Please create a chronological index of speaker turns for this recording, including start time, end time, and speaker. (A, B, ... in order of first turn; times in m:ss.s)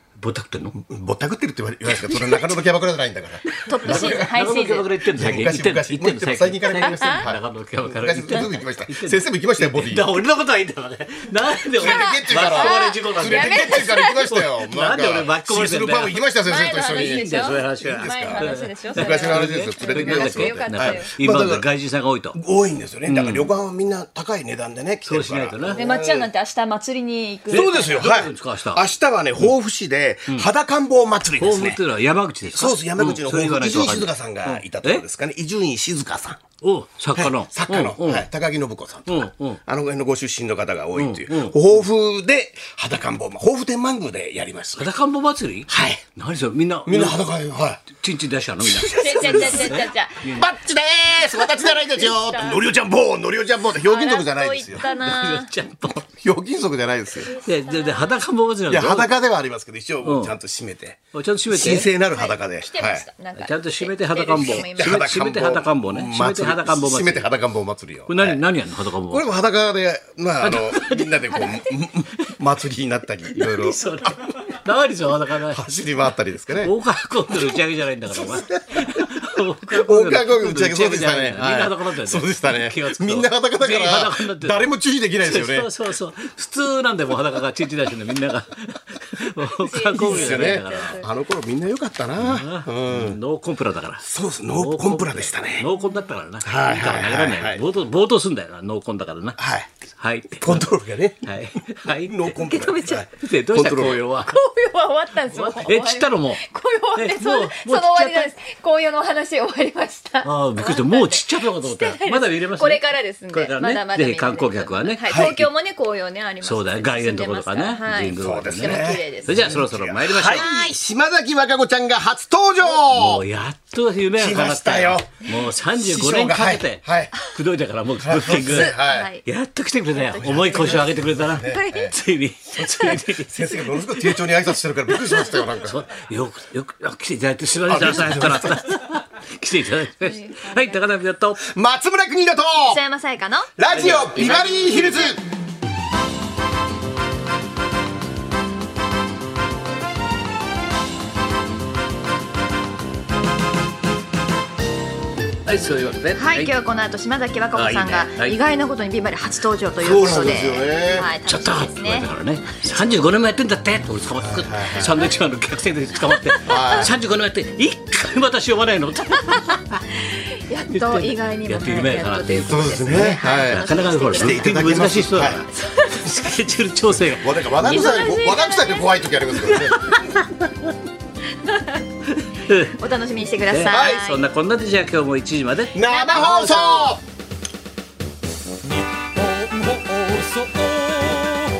0:00.2-0:00.8 A
0:00.8-0:04.3 B
0:02.0-0:02.4 A
0:03.5-0:16.2 A
0:03.6-0:05.0 C
0:05.2-0:10.1 B
0:06.7-0:07.3 C
0:11.7-0:18.4 B
0:11.8-0:14.2 C
0:16.4-0:21.1 C
0:16.8-0:22.4 A
0:19.0-0:21.7 B
0:22.3-0:26.3 B
0:23.1-0:23.5 A
0:25.1-0:25.8 A
0:25.7-0:28.1 C
0:27.5-0:28.8 A
0:27.5-0:31.8 B
0:31.4-0:35.0 A
0:32.5-0:36.4 B
0:36.6-0:38.3 A
0:37.2-0:44.9 B
0:39.1-0:39.6 A
0:41.0-0:41.6 A
0:44.8-0:47.2 A
0:45.7-0:46.0 B
0:46.9-0:47.9 B
0:47.9-0:50.5 A
0:48.6-0:54.8 B
0:48.9-0:50.4 C
0:51.2-0:52.6 C
0:53.8-0:55.5 C
0:54.8-0:56.1 A
0:56.2-0:57.3 B
0:57.2-0:58.2 C
0:57.4-0:59.1 A
0:58.7-1:03.1 B
1:00.0-1:00.4 A
1:01.1-1:01.9 A
1:02.1-1:05.0 C
1:03.4-1:07.3 A
1:04.6-1:08.4 B
1:08.1-1:09.3 A
1:09.1-1:14.3 B
1:10.4-1:11.6 A
1:13.3-1:15.7 A
1:15.5-1:16.7 B
1:16.6-1:24.7 A
1:17.3-1:19.1 B
1:19.7-1:25.7 B
1:25.2-1:31.0 A
1:29.6-1:31.1 C
1:29.9-1:33.2 B
1:32.2-1:39.4 A
1:34.0-1:35.7 B
1:35.8-1:36.0 C
1:36.4-1:37.6 B
1:39.4-1:39.7 B
1:40.0-1:40.7 A
1:40.4-1:44.1 B
1:41.2-1:42.3 A
1:42.4-1:43.0 C
1:42.9-1:44.4 A
1:44.3-1:59.5 C
1:45.2-1:46.4 A
1:47.0-1:48.3 A
1:50.2-1:55.5 A
1:55.1-1:55.4 B
1:56.4-2:00.5 A
1:58.2-2:03.2 B
2:00.3-2:00.7 C
2:02.6-2:14.3 A
2:04.2-2:07.2 B
2:08.0-2:09.1 B
2:08.4-2:09.2 C
2:09.9-2:11.9 C
2:10.2-2:11.9 B
2:12.6-2:13.0 C
2:12.7-2:15.8 B
2:15.3-2:21.5 A
2:17.7-2:18.6 B
2:20.0-2:20.9 C
2:21.4-2:22.8 B
2:22.6-2:23.5 C
2:23.6-2:25.2 B
2:23.7-2:25.2 A
2:35.5-2:36.5 A
2:36.1-2:42.1 C
2:37.5-2:38.4 A
2:39.8-2:41.1 B
2:41.2-2:49.8 A
2:44.2-2:45.0 B
2:46.4-2:46.7 C
2:46.4-2:46.9 B
2:49.9-2:54.5 C
2:50.7-2:57.9 A
2:52.4-2:55.4 B
2:55.5-2:56.1 C
2:57.2-2:59.8 B
2:57.6-2:59.5 C
2:59.6-3:00.4 A
3:01.4-3:01.8 C
3:02.5-3:02.8 A
3:02.8-3:04.2 C
3:03.5-3:05.8 A
3:03.7-3:04.0 B
3:05.7-3:07.0 B
3:05.8-3:07.0 C
3:09.5-3:11.3 A